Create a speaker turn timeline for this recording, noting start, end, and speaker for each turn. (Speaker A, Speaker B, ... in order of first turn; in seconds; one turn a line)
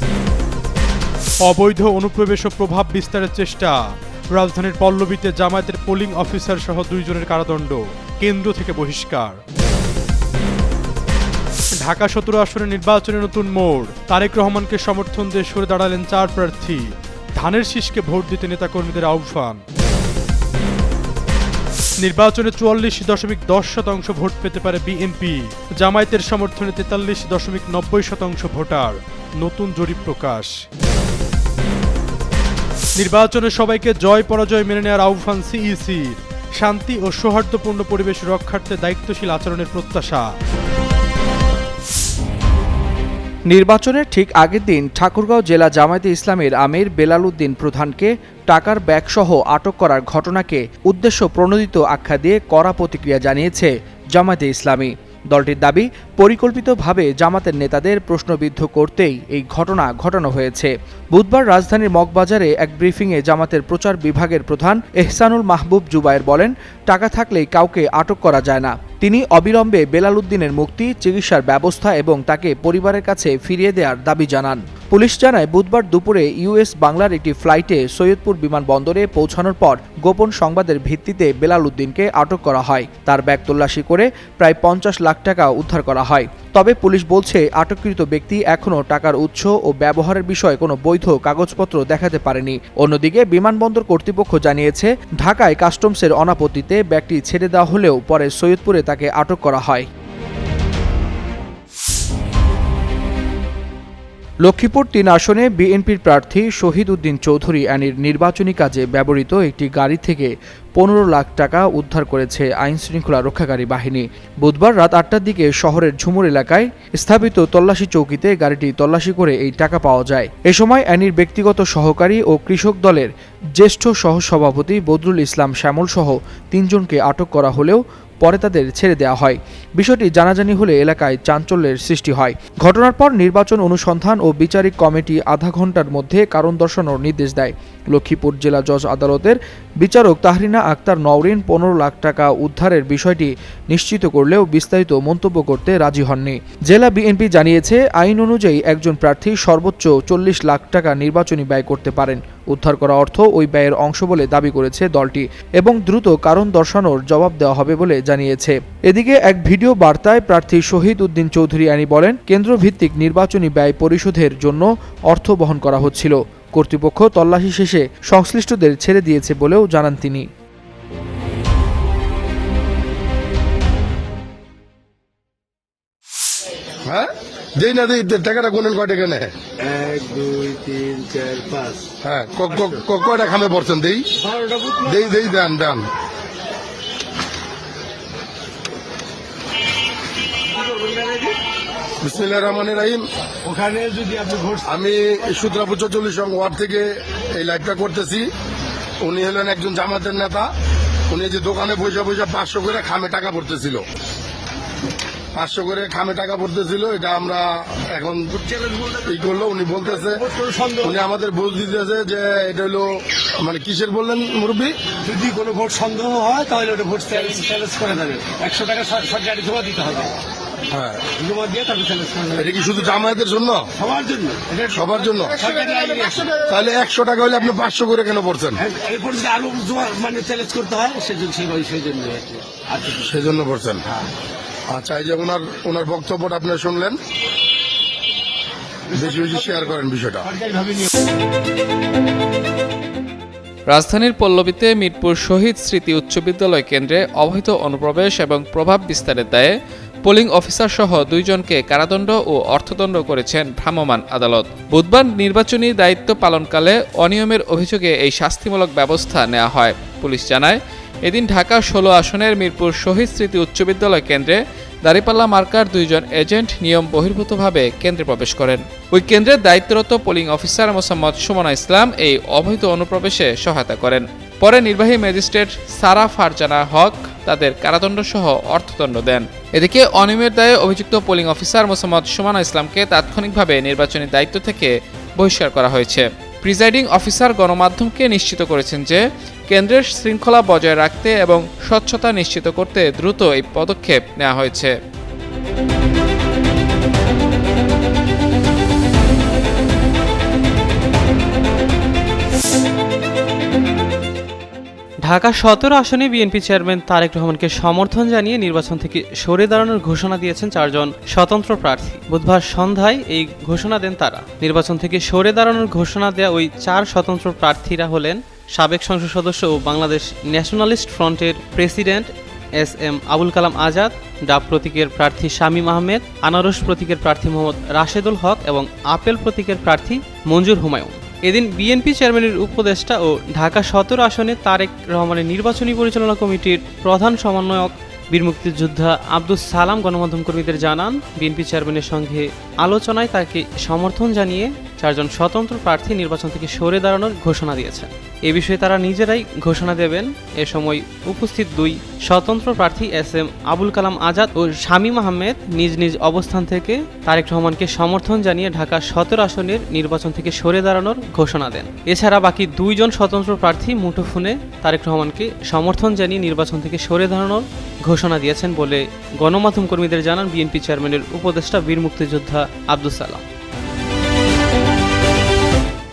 Speaker A: 1.4-3.8
Speaker A: 4.3-9.4
Speaker A: 11.8-19.6
Speaker A: 22.0-30.5
Speaker A: 33.0-40.3
Speaker B: 43.5-99.8
Speaker B: 104.4-170.3
Speaker C: 176.8-179.3
Speaker D: 179.8-181.8
Speaker C: 182.0-184.0
Speaker D: 184.3-184.7
Speaker C: 184.8-185.8
Speaker C: 192.0-193.0
Speaker D: 193.5-194.6
Speaker C: 194.7-198.3
Speaker C: 199.0-200.5
Speaker C: 201.1-203.8
Speaker C: 205.3-208.3
Speaker C: 209.1-210.2
Speaker C: 210.8-212.9
Speaker C: 213.4-214.7
Speaker D: 215.1-220.1
Speaker C: 220.7-221.1
Speaker D: 221.3-222.4
Speaker C: 222.3-223.7
Speaker D: 223.8-224.6
Speaker C: 224.7-225.4
Speaker D: 225.5-226.1
Speaker C: 226.4-228.6
Speaker D: 228.7-232.8
Speaker C: 233.0-233.8
Speaker C: 234.7-236.9
Speaker C: 238.9-240.3
Speaker E: 243.7-294.7
Speaker F: 305.0-373.2